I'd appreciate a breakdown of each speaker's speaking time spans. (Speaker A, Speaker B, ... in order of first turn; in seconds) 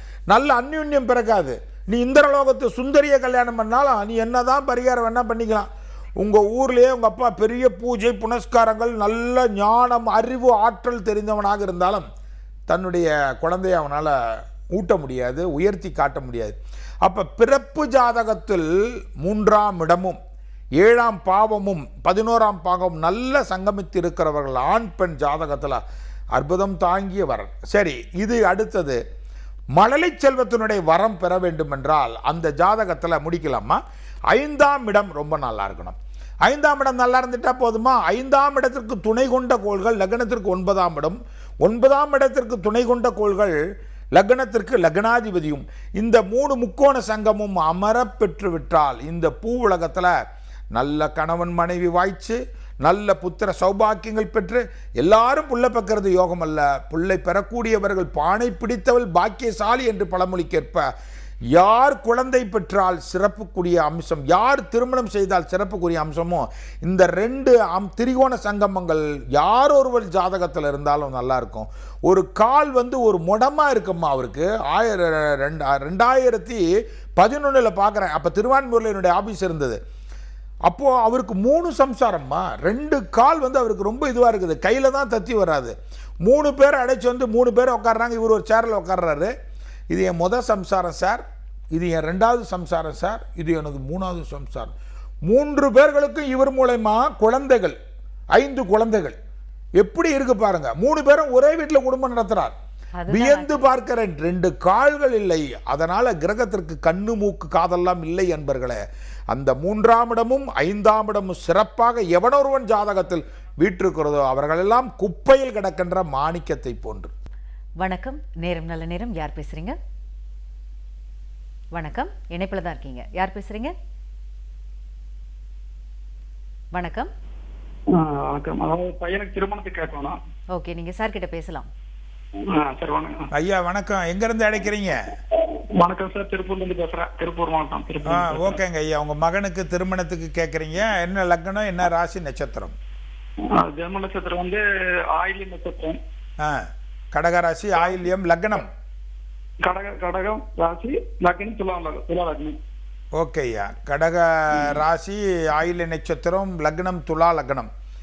Speaker A: 0.3-5.7, 6.2-12.0, 12.7-14.1, 14.7-20.2, 20.8-25.8, 26.3-29.0, 29.7-33.8, 34.3-43.6, 44.1-50.1, 50.7-60.9, 61.5-76.6, 77.2-79.8, 80.7-89.3, 89.9-94.7, 95.3-97.8, 98.3-99.1, 99.8-102.5, 103.1-108.8, 109.3-117.1, 133.3-135.0, 138.0-142.7, 146.4-148.7, 153.2-157.7
Speaker B: 103.0-103.7, 117.8-119.8, 121.7-123.7, 126.7-127.1, 130.5-131.7
Speaker C: 127.9-130.2, 132.5-133.3, 135.5-138.6, 143.5-146.0, 149.6-152.6